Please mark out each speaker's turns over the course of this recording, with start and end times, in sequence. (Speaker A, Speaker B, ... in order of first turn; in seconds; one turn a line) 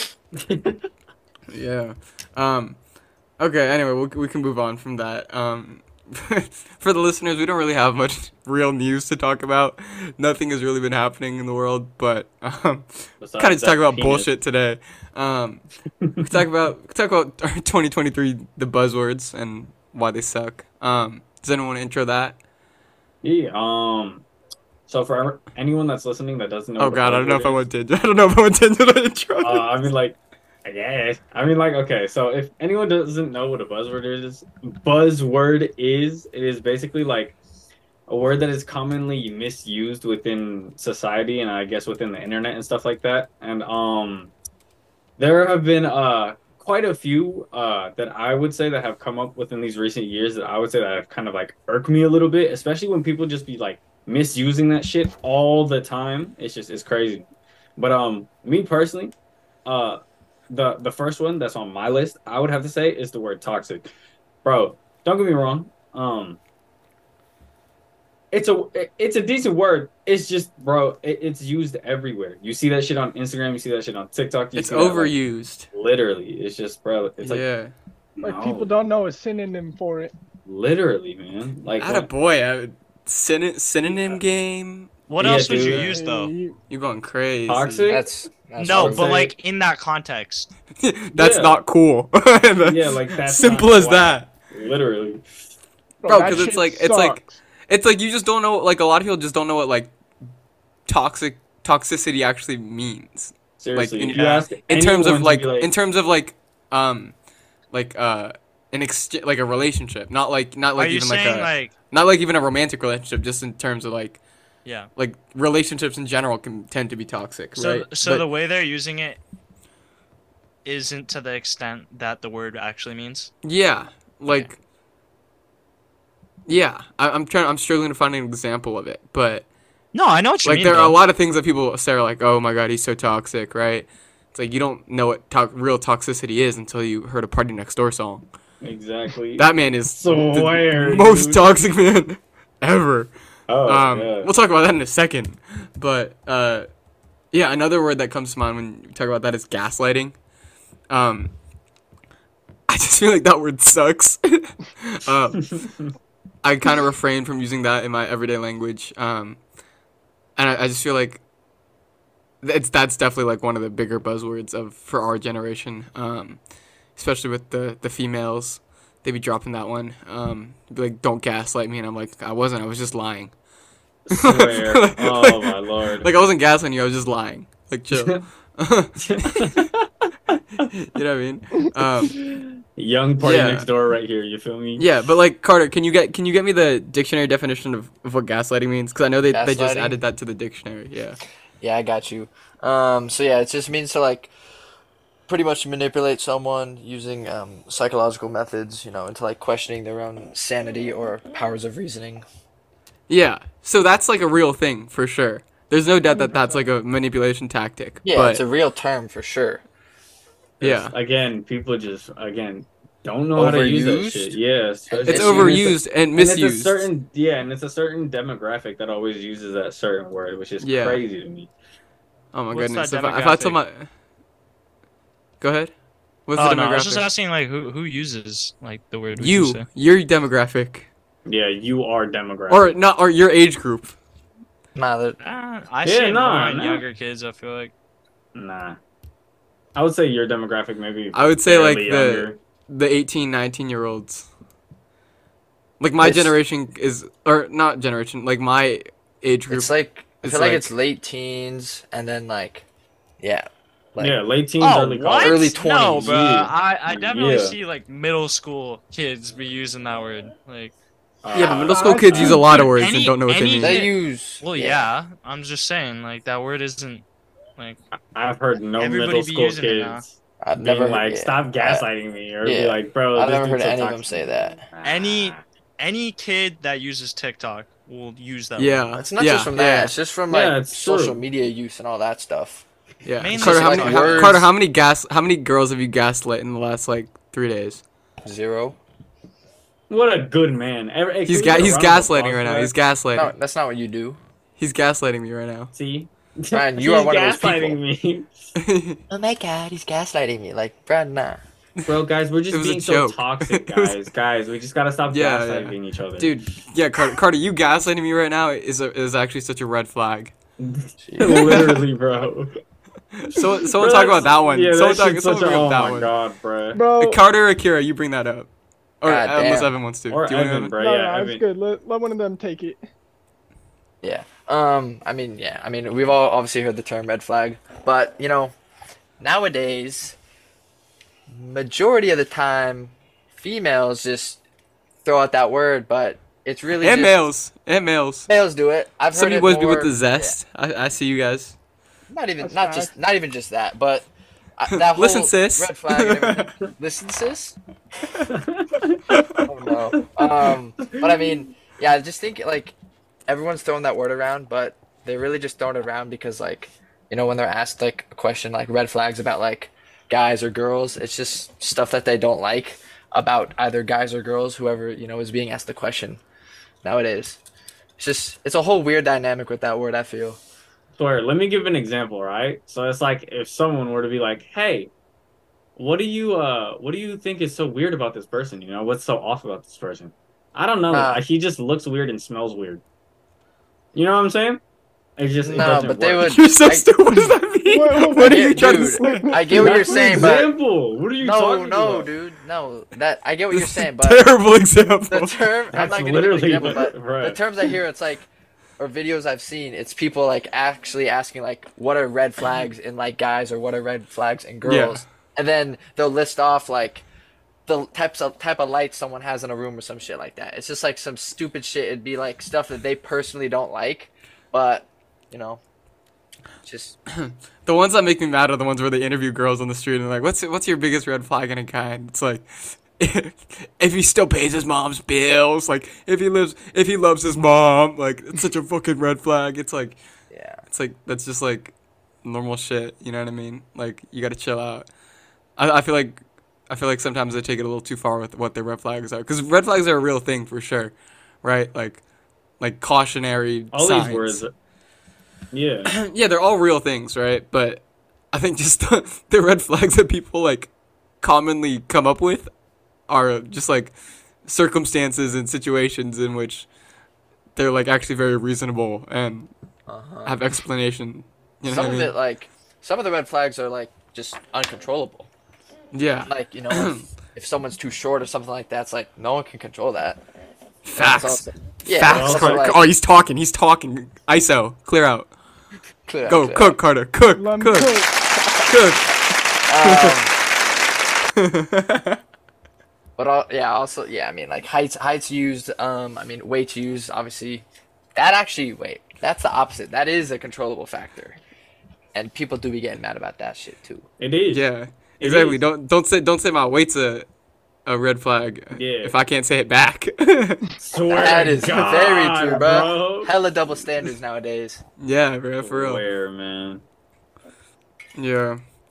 Speaker A: 0.4-0.8
Speaker B: 1.5-2.8
Speaker B: 3.4-15.6
Speaker A: 13.2-14.3
Speaker A: 16.0-16.3
Speaker B: 16.2-22.4
Speaker A: 23.2-24.2
Speaker A: 24.9-27.6
Speaker B: 26.8-29.9
Speaker A: 29.4-37.3
Speaker A: 38.1-44.3
Speaker A: 45.2-59.1
Speaker A: 59.6-63.9
Speaker A: 64.4-66.4
Speaker A: 68.3-75.1
Speaker B: 74.5-75.7
Speaker A: 75.7-77.4
Speaker B: 77.2-77.7
Speaker A: 78.2-78.7
Speaker C: 78.2-80.1
Speaker A: 80.5-82.1
Speaker B: 81.8-85.8
Speaker A: 83.8-84.2
Speaker D: 85.1-86.3
Speaker A: 85.2-85.9
Speaker C: 85.3-86.5
Speaker B: 86.7-88.0
Speaker A: 87.5-88.0
Speaker E: 87.9-89.2
Speaker D: 88.6-90.5
Speaker A: 88.7-89.3
Speaker B: 90.8-94.3
Speaker A: 91.1-91.6
Speaker A: 92.6-95.2
Speaker C: 96.0-97.3
Speaker B: 96.0-99.9
Speaker B: 100.9-107.1
Speaker A: 103.6-105.7
Speaker B: 107.7-114.2
Speaker D: 110.8-111.7
Speaker D: 114.6-114.9
Speaker B: 115.0-118.3
Speaker D: 117.5-119.2
Speaker D: 120.6-123.3
Speaker B: 123.4-124.6
Speaker B: 126.5-129.4
Speaker D: 129.9-131.0
Speaker B: 130.4-138.2
Speaker A: 138.6-141.4
Speaker B: 139.4-143.1
Speaker A: 143.5-144.3
Speaker B: 143.6-146.7
Speaker B: 147.3-150.2
Speaker B: 150.9-151.3
Speaker B: 152.7-155.6
Speaker A: 155.5-155.8
Speaker B: 156.4-159.4
Speaker B: 160.3-161.2
Speaker B: 162.4-166.4
Speaker B: 166.9-173.3
Speaker A: 174.1-176.1
Speaker B: 174.1-179.6
Speaker A: 177.9-178.2
Speaker A: 179.0-180.4
Speaker B: 180.7-182.1
Speaker A: 182.3-184.8
Speaker B: 183.2-183.7
Speaker B: 184.8-191.2
Speaker E: 189.3-190.0
Speaker E: 191.6-194.3
Speaker E: 195.3-202.2
Speaker B: 203.1-208.4
Speaker C: 206.1-206.7
Speaker E: 208.0-209.6
Speaker B: 210.6-210.9
Speaker A: 210.6-221.5
Speaker E: 213.3-215.7
Speaker B: 215.0-216.9
Speaker B: 220.6-221.0
Speaker B: 222.3-223.9
Speaker D: 222.5-223.6
Speaker B: 225.4-225.7
Speaker B: 226.3-227.1
Speaker D: 226.3-229.7
Speaker B: 229.2-230.9
Speaker A: 231.2-232.7
Speaker B: 232.5-233.9
Speaker E: 234.7-235.2
Speaker D: 235.2-237.7
Speaker A: 235.8-236.8
Speaker A: 238.3-238.8
Speaker A: 239.7-242.4
Speaker B: 241.1-244.3
Speaker B: 245.8-250.7
Speaker E: 246.0-246.4
Speaker E: 249.5-252.6
Speaker E: 253.2-254.2
Speaker A: 254.0-257.6
Speaker D: 254.6-260.7
Speaker E: 255.2-256.3
Speaker A: 261.2-262.8
Speaker B: 261.3-263.9
Speaker C: 261.5-262.5
Speaker D: 262.7-267.0
Speaker E: 263.6-264.9
Speaker A: 268.1-275.4
Speaker D: 268.8-270.0
Speaker E: 270.4-271.9
Speaker E: 272.4-274.6
Speaker D: 274.8-278.8
Speaker B: 278.6-279.9
Speaker E: 278.9-282.6
Speaker A: 280.3-281.2
Speaker B: 283.1-287.8
Speaker D: 283.2-284.4
Speaker E: 283.3-284.5
Speaker E: 288.2-288.8
Speaker A: 289.9-292.7
Speaker B: 291.2-293.3
Speaker E: 293.1-294.2
Speaker B: 294.6-295.7
Speaker A: 295.7-298.3
Speaker E: 296.5-297.8
Speaker B: 298.6-299.0
Speaker E: 299.1-301.4
Speaker A: 301.9-306.3
Speaker B: 302.5-303.9
Speaker B: 305.1-310.3
Speaker A: 310.6-312.5
Speaker E: 311.1-311.6
Speaker B: 311.2-311.8
Speaker B: 313.1-316.1
Speaker A: 313.8-316.8
Speaker C: 316.7-317.2
Speaker B: 316.9-318.5
Speaker B: 319.0-320.7
Speaker E: 319.1-319.7
Speaker A: 320.1-321.4
Speaker C: 320.8-322.8
Speaker E: 324.0-328.5
Speaker E: 329.2-330.1
Speaker E: 331.3-334.4
Speaker E: 335.0-337.2
Speaker B: 336.8-338.3
Speaker E: 338.3-340.4
Speaker B: 339.1-341.6
Speaker E: 342.1-347.6
Speaker C: 342.4-342.9
Speaker B: 344.7-346.5
Speaker A: 348.3-349.0
Speaker B: 349.1-349.4
Speaker E: 349.4-352.8
Speaker A: 349.9-350.3
Speaker A: 350.8-351.4
Speaker E: 353.3-366.2
Speaker E: 366.8-367.4
Speaker E: 368.0-370.4
Speaker A: 371.0-374.9
Speaker A: 375.8-382.8
Speaker E: 380.9-381.2
Speaker A: 383.9-384.6
Speaker A: 385.2-386.4
Speaker E: 385.4-386.9
Speaker B: 386.2-389.4
Speaker C: 387.6-390.3
Speaker E: 388.2-390.5
Speaker A: 389.5-392.1
Speaker E: 391.2-394.3
Speaker B: 393.5-395.4
Speaker E: 395.1-407.0
Speaker A: 395.7-397.4
Speaker B: 404.6-405.0
Speaker E: 407.7-415.6
Speaker E: 416.6-417.0
Speaker B: 417.1-430.0
Speaker E: 430.3-430.6
Speaker B: 430.7-434.9
Speaker B: 435.6-442.0
Speaker B: 442.6-444.4
Speaker A: 443.7-444.5
Speaker A: 445.5-445.9
Speaker B: 445.9-450.7
Speaker B: 451.2-452.5
Speaker B: 453.1-453.9
Speaker B: 454.4-456.7
Speaker B: 457.6-459.5
Speaker E: 459.9-460.4
Speaker B: 460.2-462.1
Speaker E: 461.6-465.3
Speaker B: 465.9-467.0
Speaker E: 466.3-470.2
Speaker B: 470.8-475.3
Speaker E: 470.9-472.9
Speaker A: 472.0-472.7
Speaker E: 476.1-476.8
Speaker B: 476.3-478.0
Speaker C: 477.3-478.1
Speaker B: 478.6-479.1
Speaker E: 479.7-480.3
Speaker B: 479.8-480.2
Speaker B: 481.4-482.2
Speaker E: 483.2-491.4
Speaker E: 492.1-494.1
Speaker A: 494.2-494.7
Speaker B: 494.5-497.3
Speaker A: 495.2-495.6
Speaker B: 497.9-500.6
Speaker A: 498.7-499.2
Speaker A: 500.8-503.3
Speaker E: 501.1-504.8
Speaker B: 505.0-506.0
Speaker A: 505.6-506.8
Speaker B: 508.1-508.6